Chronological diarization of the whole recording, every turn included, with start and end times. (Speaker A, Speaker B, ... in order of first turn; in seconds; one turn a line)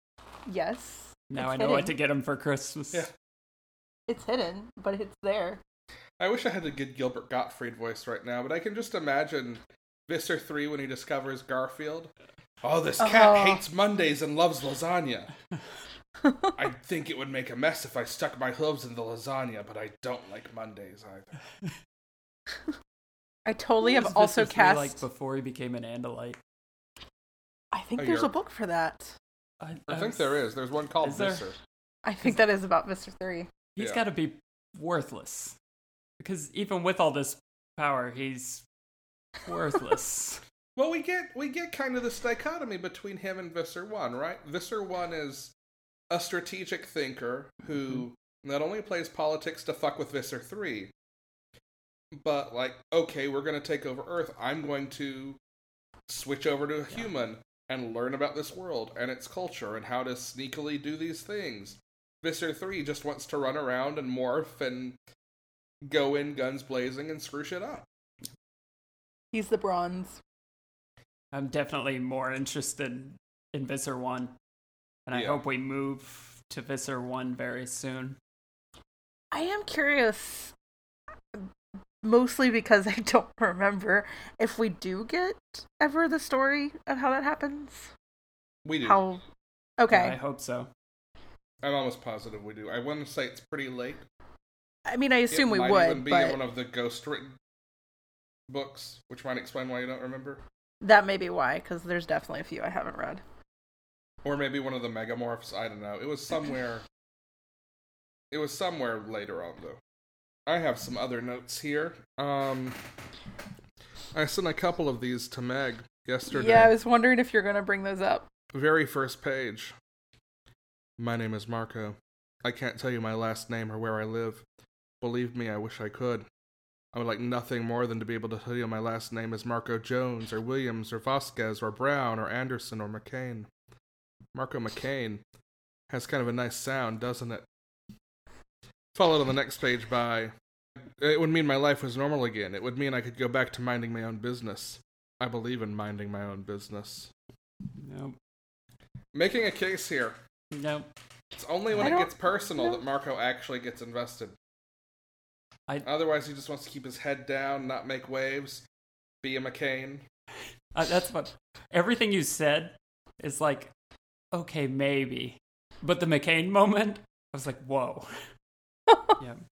Speaker A: 0.5-1.9
Speaker B: 1.3-3.1
Speaker A: 4.1-5.6
Speaker C: 6.2-12.1
Speaker C: 12.6-15.3
Speaker A: 13.0-13.6
Speaker A: 16.2-16.5
Speaker C: 16.6-21.3
Speaker A: 23.4-25.0
Speaker B: 23.8-26.4
Speaker A: 27.7-29.2
Speaker C: 28.0-28.3
Speaker B: 29.6-30.4
Speaker C: 29.9-31.6
Speaker B: 31.0-31.5
Speaker A: 32.0-33.5
Speaker B: 33.8-35.6
Speaker C: 33.8-34.0
Speaker B: 36.2-38.6
Speaker B: 39.5-40.4
Speaker C: 40.8-45.5
Speaker C: 46.1-50.9
Speaker C: 52.2-55.4
Speaker C: 56.1-65.0
Speaker C: 65.8-67.9
Speaker A: 69.3-70.2
Speaker B: 71.3-74.3
Speaker B: 75.1-78.2
Speaker C: 75.1-75.4
Speaker A: 79.3-80.5
Speaker A: 82.0-87.9
Speaker C: 88.7-89.0
Speaker A: 88.8-89.2
Speaker A: 89.8-90.2
Speaker B: 89.9-90.7
Speaker C: 91.6-94.0
Speaker A: 94.9-96.4
Speaker C: 95.3-97.4
Speaker C: 98.5-100.4
Speaker A: 100.8-103.2
Speaker C: 104.2-106.8
Speaker C: 108.3-109.8
Speaker C: 110.5-112.8
Speaker C: 114.1-116.7
Speaker A: 116.3-118.3
Speaker C: 118.5-119.7
Speaker C: 121.0-124.4
Speaker C: 125.0-126.3
Speaker C: 126.9-133.5
Speaker C: 134.3-135.2
Speaker C: 135.9-137.5
Speaker C: 138.9-140.3
Speaker C: 141.0-147.1
Speaker B: 147.8-148.2
Speaker C: 149.1-150.2
Speaker B: 150.5-150.9
Speaker C: 151.4-154.3
Speaker A: 151.8-152.8
Speaker C: 155.8-158.6
Speaker C: 159.2-160.0
Speaker B: 160.8-163.7
Speaker B: 164.3-168.1
Speaker A: 168.9-169.1